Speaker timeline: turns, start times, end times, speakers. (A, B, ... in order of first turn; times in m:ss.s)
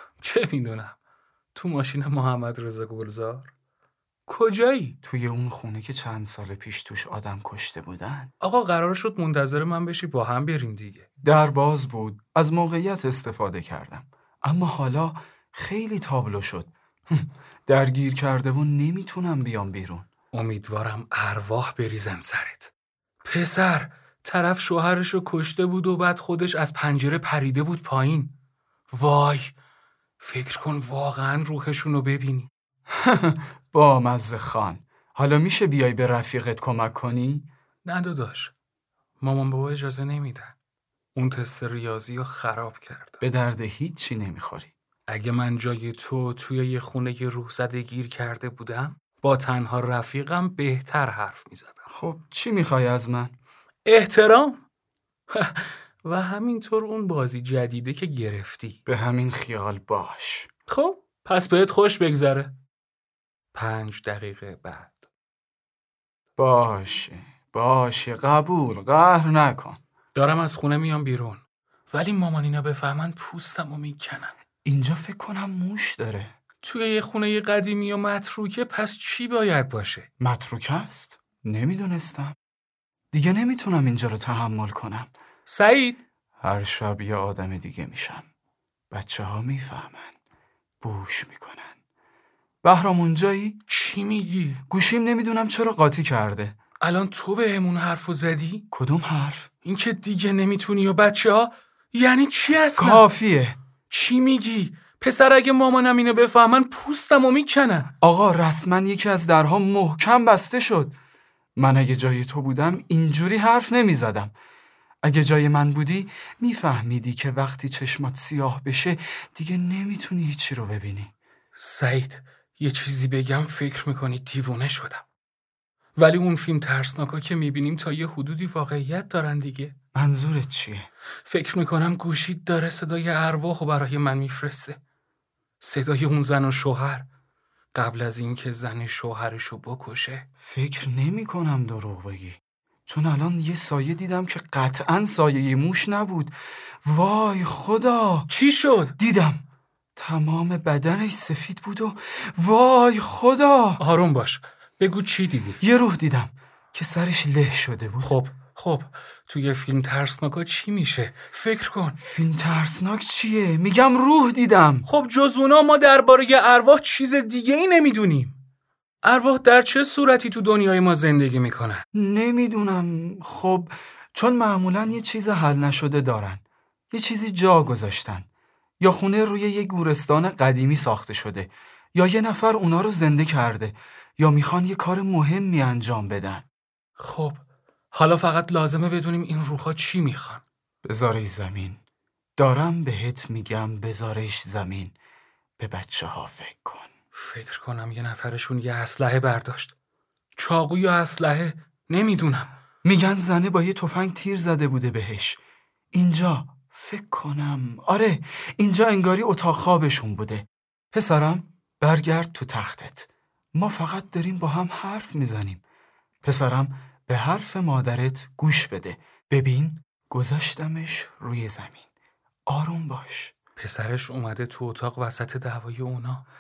0:00.2-0:01.0 A
0:01.5-0:03.5 A
0:04.3-0:05.0 A
0:05.0-0:08.3 B
0:08.4-0:11.1 A
0:11.2-0:20.1 B
0:20.3-0:22.7 A
0:23.2-0:28.3 A
0:28.9-0:29.5 A
0:30.2-0:32.5 A
0:32.9-0:37.5 B
0:37.8-0:38.5 A
0:39.2-0:40.5 A
0:41.1-0:43.2 A
0:43.2-0:44.7 B
0:45.1-0:51.9 A
0:51.9-0:53.3 B
0:53.8-0:54.6 A
0:55.3-0:58.8 A
0:58.8-1:00.5 B
1:00.7-1:02.5 A
1:03.5-1:05.1 A
1:06.4-1:09.8 B
1:10.1-1:14.3 A
1:14.6-1:16.3 B
1:16.6-1:20.1 A
1:20.2-1:22.4 B
1:23.1-1:25.1 B
1:25.5-1:26.0 A
1:26.4-1:28.2 B
1:28.9-1:30.2 B
1:30.8-1:31.7 B
1:32.6-1:33.6 B
1:33.7-1:34.6 A
1:34.7-1:36.6 B
1:36.8-1:38.6 A
1:38.7-1:39.5 B
1:39.6-1:43.1 A
1:42.8-1:43.6 B
1:43.9-1:47.9 A
1:48.0-1:51.0 B
1:51.6-1:54.3 B
1:55.0-2:01.1 B
2:01.6-2:05.0 A
2:06.0-2:09.7 A
2:09.9-2:10.9 B
2:11.2-2:14.8 A
2:15.6-2:17.1 A
2:17.7-2:20.2 A
2:20.4-2:28.3 B
2:28.3-2:29.0 A
2:29.0-2:29.4 B
2:30.0-2:33.8 B
2:33.8-2:35.6 A
2:35.6-2:38.1 B
2:38.0-2:42.0 A
2:42.0-2:44.9 B
2:44.8-2:48.4 A
2:49.0-2:51.8 A
2:51.9-2:58.2 B
2:58.8-3:06.4 B
3:07.0-3:07.4 A
3:07.9-3:10.4 A
3:10.8-3:11.8 B
3:12.4-3:14.9 B
3:15.6-3:16.9 B
3:17.1-3:19.7 A
3:20.4-3:22.5 A
3:22.8-3:25.4 B
3:25.9-3:35.6 B
3:36.2-3:41.8 B
3:42.5-3:43.3 B
3:43.6-3:46.2 A